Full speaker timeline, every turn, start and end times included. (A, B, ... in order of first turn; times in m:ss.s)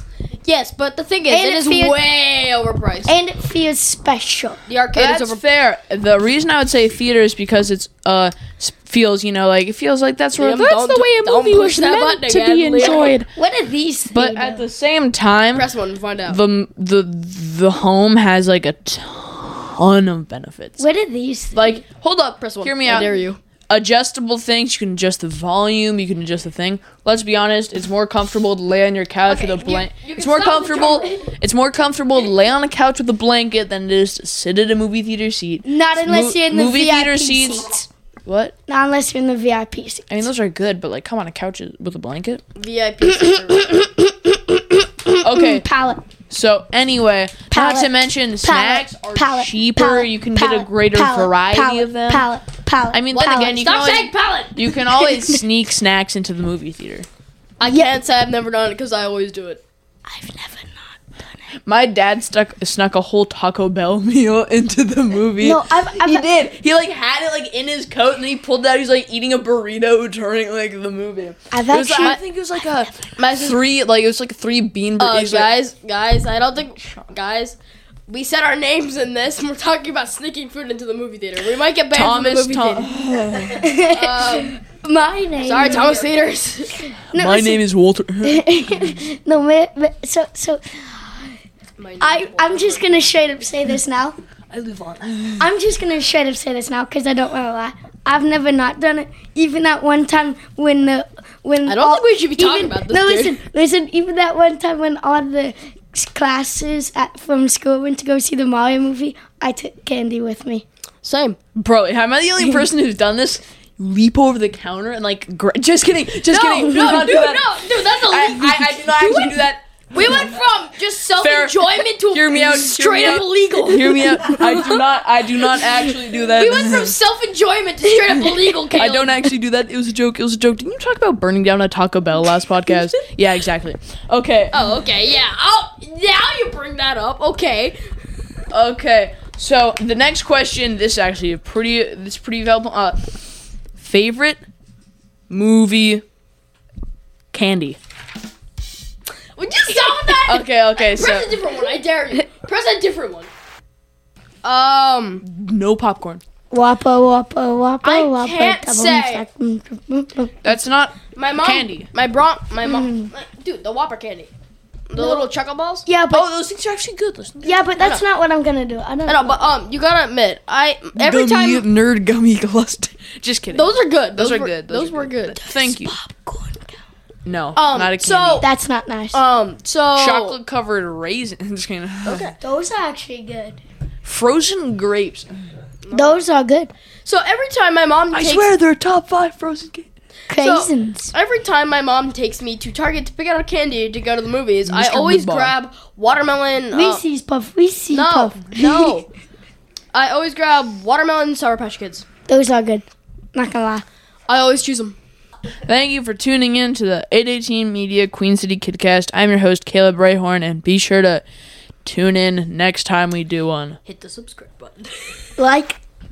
0:00.4-0:03.1 A
0:01.3-0:02.0 B
0:03.0-0:04.6 B
0:04.7-0:05.4 A
0:04.9-0:13.3 C
0:10.4-0:13.2 A
0:12.8-0:14.6 B
0:14.1-0:15.7 C
0:15.5-0:16.4 A
0:16.2-0:20.8 C
0:20.8-0:21.8 B
0:21.5-0:23.1 C
0:22.4-0:23.4 A
0:23.7-0:37.7 C
0:29.2-0:31.3 A
0:35.6-0:37.9 B
0:38.2-0:38.5 C
0:38.7-0:40.3 B
0:40.1-0:42.4 C
0:42.6-0:43.7 A
0:43.2-0:46.0 B
0:45.2-0:45.6 C
0:46.3-0:52.3 C
0:47.5-0:53.7 B
0:52.9-0:57.1 C
0:53.1-0:54.6 A
0:54.9-0:55.4 B
0:57.6-0:59.6 A
1:00.1-1:01.1 B
1:01.6-1:15.5 C
1:05.4-1:06.3 B
1:11.5-1:12.2 B
1:15.0-1:17.6 A
1:18.1-1:23.0 A
1:21.9-1:23.7 C
1:23.4-1:26.1 B
1:23.9-1:24.6 A
1:25.4-1:26.8 A
1:27.1-1:27.6 B
1:27.1-1:28.4 C
1:28.2-1:31.4 B
1:31.8-1:33.4 A
1:32.0-1:34.2 B
1:34.5-1:35.5 C
1:35.4-1:50.6 B
1:41.6-1:43.4 A
1:51.0-1:51.4 A
1:51.5-2:00.1 C
1:56.2-2:04.8 A
2:01.2-2:07.0 C
2:05.5-2:09.3 A
2:08.7-2:14.7 C
2:14.5-2:17.9 A
2:18.5-2:23.0 C
2:23.8-2:24.4 C
2:25.3-2:26.0 C
2:27.3-2:27.8 C
2:29.4-2:33.3 A
2:30.2-2:31.3 C
2:34.4-2:35.2 A
2:35.2-2:36.2 C
2:36.5-2:40.4 B
2:37.8-2:39.2 A
2:40.4-2:41.9 C
2:41.1-2:44.3 A
2:42.6-2:43.1 B
2:44.9-2:45.9 A
2:45.0-2:45.3 B
2:45.9-2:46.3 B
2:46.1-2:47.6 C
2:47.4-2:49.5 B
2:47.8-2:48.0 A
2:49.0-2:51.7 A
2:51.0-2:56.0 C
2:53.5-2:55.4 A
2:55.4-2:56.7 B
2:57.2-2:58.5 C
2:57.6-2:58.4 A
2:58.4-2:59.2 B
2:59.1-3:00.4 A
2:59.9-3:02.3 C
3:02.0-3:02.4 A
3:02.4-3:03.6 B
3:04.0-3:05.3 C
3:05.8-3:06.2 A
3:05.9-3:06.7 B
3:07.0-3:08.5 A
3:08.1-3:09.9 C
3:10.3-3:11.1 B
3:10.3-3:17.0 A
3:14.6-3:15.5 C
3:16.7-3:19.0 B
3:17.9-3:19.1 A
3:19.9-3:22.0 A
3:22.3-3:23.8 B
3:24.3-3:25.0 A
3:25.6-3:31.2 C
3:31.8-3:33.8 C
3:33.8-3:35.2 A
3:35.4-3:35.8 B